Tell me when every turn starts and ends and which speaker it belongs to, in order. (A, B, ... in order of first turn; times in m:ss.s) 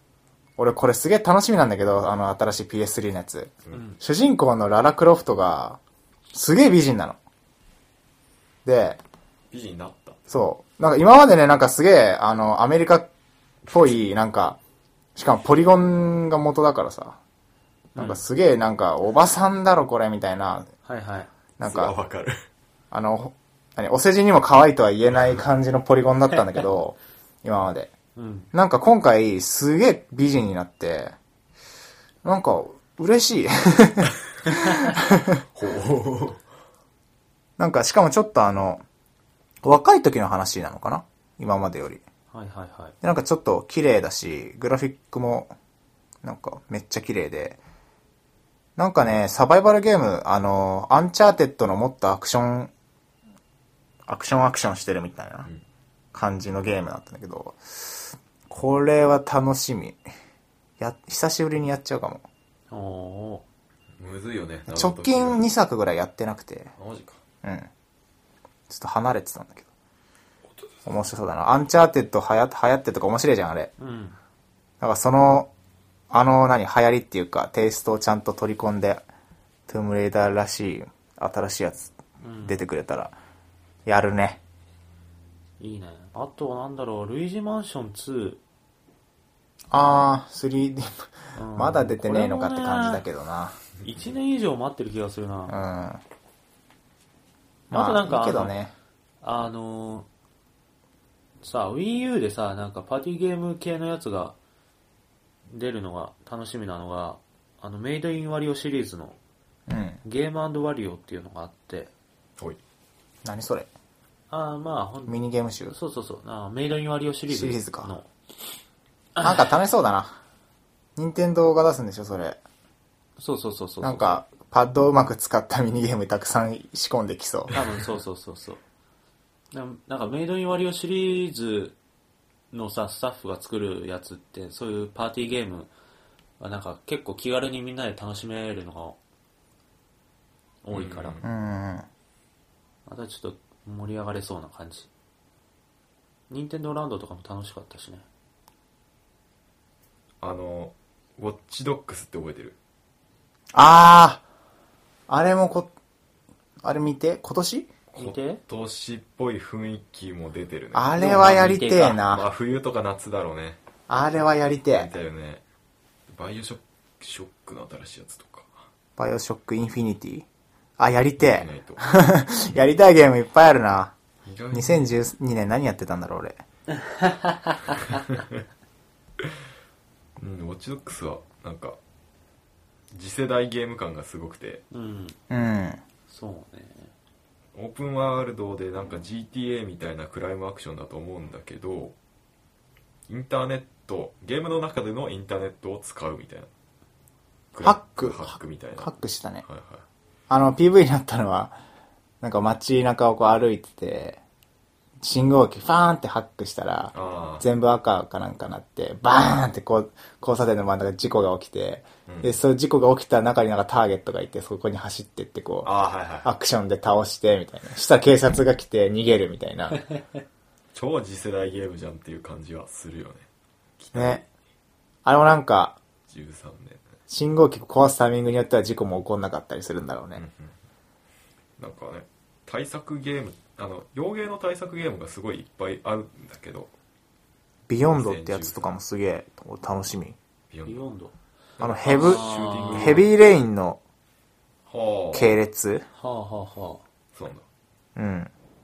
0:00.6-0:05.8 A
0:03.7-0:04.0 B
0:06.3-0:07.2 A
0:08.6-0:09.0 A
0:09.5-0:10.3 C
0:10.3-0:13.1 A
0:13.7-0:14.6 A
0:15.2-0:17.2 A
0:17.9-0:20.7 A
0:18.0-0:18.2 B
0:20.8-0:21.3 B
0:21.6-0:21.9 A
0:21.6-0:22.4 C
0:22.9-0:27.9 A
0:28.2-0:28.5 B
0:28.5-0:31.1 A
0:32.2-0:35.4 A
0:35.5-0:36.4 C
0:37.6-0:38.8 A
0:39.6-0:42.0 A
0:42.3-0:42.9 B
0:43.0-0:45.5 A
0:46.2-0:47.6 A
0:48.8-0:52.7 A
0:54.0-0:55.5 A
0:56.1-1:00.0 A
1:00.8-1:02.2 A
1:02.7-1:03.4 B
1:04.0-1:05.4 C
1:04.7-1:06.7 A
1:06.8-1:07.2 C
1:07.4-1:07.7 A
1:08.7-1:09.7 A
1:10.8-1:13.7 A
1:13.8-1:14.2 B
1:14.8-1:15.5 A
1:16.1-1:19.0 A
1:19.7-1:23.1 A
1:22.2-1:22.6 B
1:23.8-1:24.4 A
1:25.6-1:28.4 B
1:29.7-1:33.6 A
1:31.3-1:33.0 B
1:33.8-1:35.6 B
1:35.5-1:36.0 A
1:37.7-1:38.7 A
1:37.7-1:38.5 B
1:39.2-1:40.1 B
1:41.4-1:44.4 B
1:45.5-1:49.2 B
1:49.7-1:50.0 A
1:50.0-1:51.9 B
1:53.2-1:53.7 A
1:54.3-1:55.2 B
1:55.1-1:55.8 A
1:55.7-1:58.1 B
1:57.3-1:57.9 A
1:59.2-1:59.5 B
1:59.2-2:00.2 A
2:01.0-2:02.4 A
2:03.2-2:04.2 B
2:03.8-2:07.5 A
2:07.5-2:08.6 B
2:09.5-2:11.8 B
2:12.5-2:15.7 B
2:16.4-2:19.0 B
2:20.6-2:21.2 B
2:20.7-2:21.2 C
2:21.2-2:21.8 A
2:22.8-2:24.9 B
2:26.3-2:28.0 B
2:30.2-2:32.6 C
2:33.5-2:34.2 A
2:35.1-2:35.7 A
2:36.6-2:37.7 A
2:37.9-2:40.9 C
2:38.0-2:38.4 B
2:40.7-2:42.2 A
2:41.0-2:42.0 B
2:42.0-2:43.6 C
2:43.9-2:44.9 A
2:44.7-2:45.4 C
2:46.1-2:48.6 C
2:49.0-2:50.2 A
2:50.8-2:53.9 A
2:51.2-2:52.0 C
2:54.2-2:55.0 C
2:54.5-2:56.4 A
2:56.8-2:58.0 B
3:00.2-3:01.8 C
3:02.9-3:04.6 C
3:04.7-3:05.2 B
3:05.3-3:05.8 A
3:06.1-3:06.9 B
3:07.5-3:11.9 C
3:13.1-3:16.5 C
3:17.5-3:18.9 C
3:17.6-3:19.4 A
3:19.4-3:19.8 C
3:20.3-3:21.5 A
3:22.2-3:24.2 A
3:25.0-3:35.7 A
3:26.9-3:27.4 C
3:32.1-3:32.4 C
3:35.6-3:36.3 C
3:36.2-3:39.8 A
3:40.7-3:43.2 C
3:43.8-3:44.2 C
3:43.9-3:44.2 A
3:45.0-3:45.8 A
3:46.1-3:46.9 C
3:47.1-3:50.2 A
3:50.2-3:50.5 C
3:51.6-3:56.7 C
3:57.7-4:00.2 A
3:57.9-3:58.7 C
4:00.5-4:00.8 C
4:00.6-4:01.1 B
4:01.6-4:03.1 C
4:01.6-4:03.8 A
4:01.8-4:03.1 B
4:04.7-4:05.4 C
4:05.1-4:05.8 A
4:06.0-4:06.8 B
4:07.1-4:07.4 C
4:08.0-4:08.3 A